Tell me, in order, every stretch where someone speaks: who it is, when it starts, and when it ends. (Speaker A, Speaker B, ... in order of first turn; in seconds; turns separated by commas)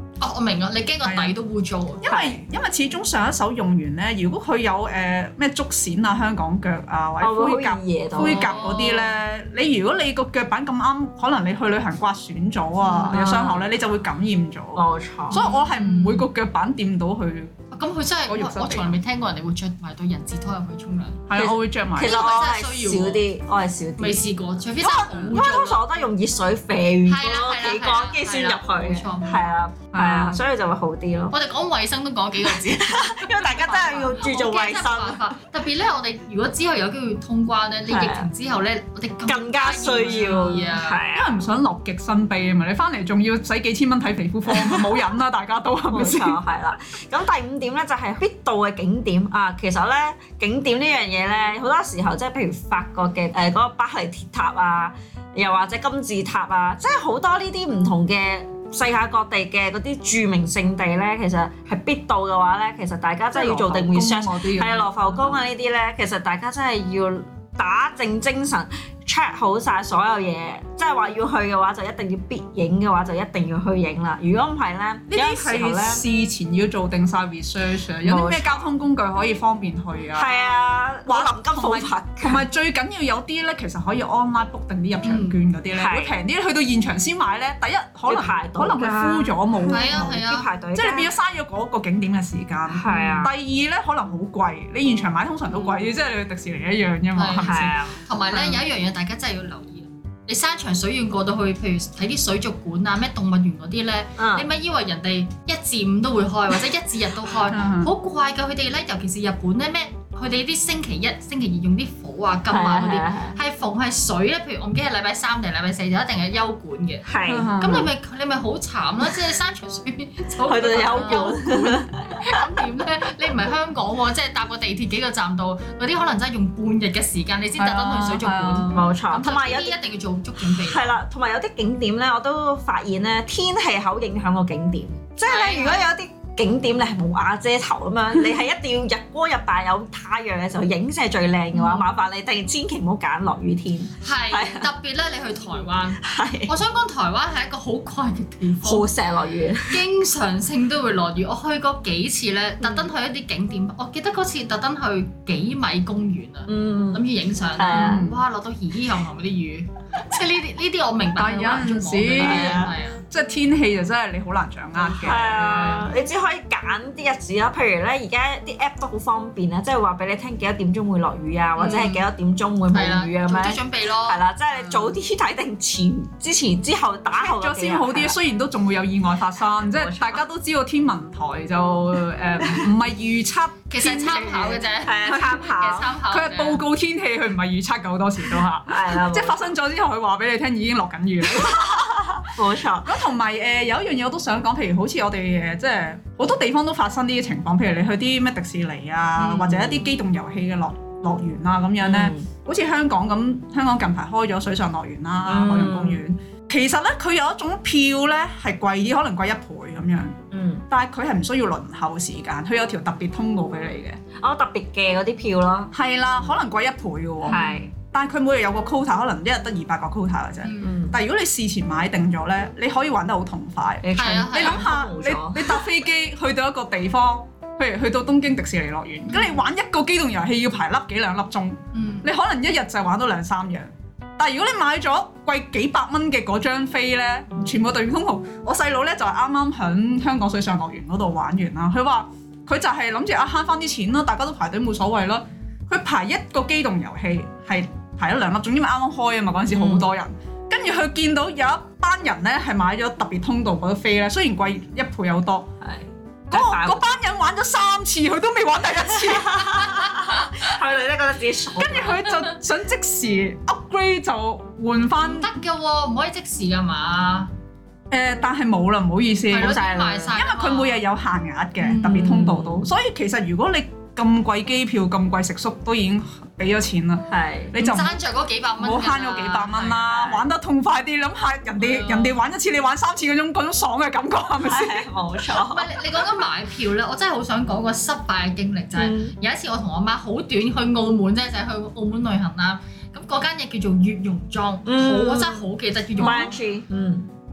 Speaker A: 0.2-2.1, Speaker B: 1.1-1.4, Speaker B: 2.0-17.6, Speaker C: 2.1-2.4, Speaker C: 7.2-8.7, Speaker A: 8.2-9.1, Speaker A: 12.9-13.1, Speaker C: 12.9-13.7, Speaker C: 14.8-15.4, Speaker A: 15.3-16.3, Speaker A: 17.7-21.2, Speaker B: 18.3-19.0, Speaker B: 21.3-22.2, Speaker C: 21.4-24.2, Speaker A: 22.0-23.2, Speaker A: 24.0-25.8, Speaker C: 24.8-31.4, Speaker A: 27.1-29.4, Speaker B: 29.9-30.4, Speaker A: 31.3-41.0, Speaker C: 32.4-35.2, Speaker C: 37.9-38.3, Speaker C: 39.3-41.4, Speaker B: 41.1-46.4, Speaker C: 44.5-45.1, Speaker C: 45.9-76.0, Speaker B: 63.3-65.4, Speaker B: 75.1-80.5, Speaker C: 78.0-78.7, Speaker C: 80.1-82.5, Speaker B: 81.1-90.2, Speaker A: 85.0-85.4, Speaker C: 85.7-86.2, Speaker C: 88.1-91.1, Speaker A: 89.7-90.5, Speaker B: 90.7-97.8, Speaker C: 92.7-93.3, Speaker A: 92.9-93.2, Speaker A: 97.2-117.1, Speaker C: 97.4-98.6, Speaker C: 104.2-104.5, Speaker B: 107.5-107.9, Speaker C: 112.5-113.4, Speaker C: 117.0-117.6, Speaker B: 117.3-117.9, Speaker A: 117.6-131.0, Speaker C: 120.4-122.4, Speaker B: 121.0-121.3, Speaker B: 127.6-128.9, Speaker C: 128.7-129.8, Speaker C: 130.4-144.7, Speaker A: 135.2-135.9, Speaker A: 141.5-141.9, Speaker A: 144.0-148.9, Speaker C: 146.0-146.5, Speaker C: 148.6-149.8, Speaker A: 149.7-163.0, Speaker C: 152.6-152.9, Speaker C: 156.5-157.0, Speaker C: 157.6-158.0, Speaker B: 157.7-158.2, Speaker B: 161.2-165.9, Speaker C: 162.2-162.7, Speaker C: 164.8-178.2, Speaker A: 171.6-172.1, Speaker A: 172.7-175.0, Speaker B: 177.2-185.4, Speaker C: 179.7-180.2, Speaker C: 182.4-182.7, Speaker A: 183.7-186.6, Speaker C: 184.8-185.9, Speaker B: 186.1-192.3, Speaker C: 188.7-189.4, Speaker C: 191.4-192.9, Speaker B: 192.8-210.2, Speaker C: 199.2-199.9, Speaker C: 201.8-202.3, Speaker C: 205.3-206.0, Speaker C: 210.3-210.6, Speaker B: 210.7-214.0, Speaker C: 214.1-215.7, Speaker B: 215.7-255.5, Speaker A: 217.3-217.7, Speaker C: 217.3-217.7, Speaker A: 220.4-220.8, Speaker C: 220.6-221.0, Speaker C: 223.8-225.6, Speaker A: 223.9-224.7, Speaker A: 229.1-229.4, Speaker A: 231.7-232.1, Speaker C: 249.5-249.9, Speaker C: 255.6-256.9, Speaker B: 256.3-259.8, Speaker C: 259.2-262.2, Speaker A: 259.6-260.3, Speaker B: 261.6-265.3, Speaker A: 265.0-267.3, Speaker B: 267.9-269.6, Speaker A: 269.3-270.8, Speaker C: 269.3-270.1, Speaker B: 270.1-278.0, Speaker A: 271.6-272.2, Speaker C: 271.8-272.7, Speaker C: 277.1-277.5, Speaker A: 277.6-279.9, Speaker B: 278.6-284.9, Speaker C: 279.9-280.2, Speaker A: 281.6-282.1, Speaker C: 284.4-285.7, Speaker A: 285.4-296.4, Speaker C: 288.8-289.1, Speaker C: 294.7-297.1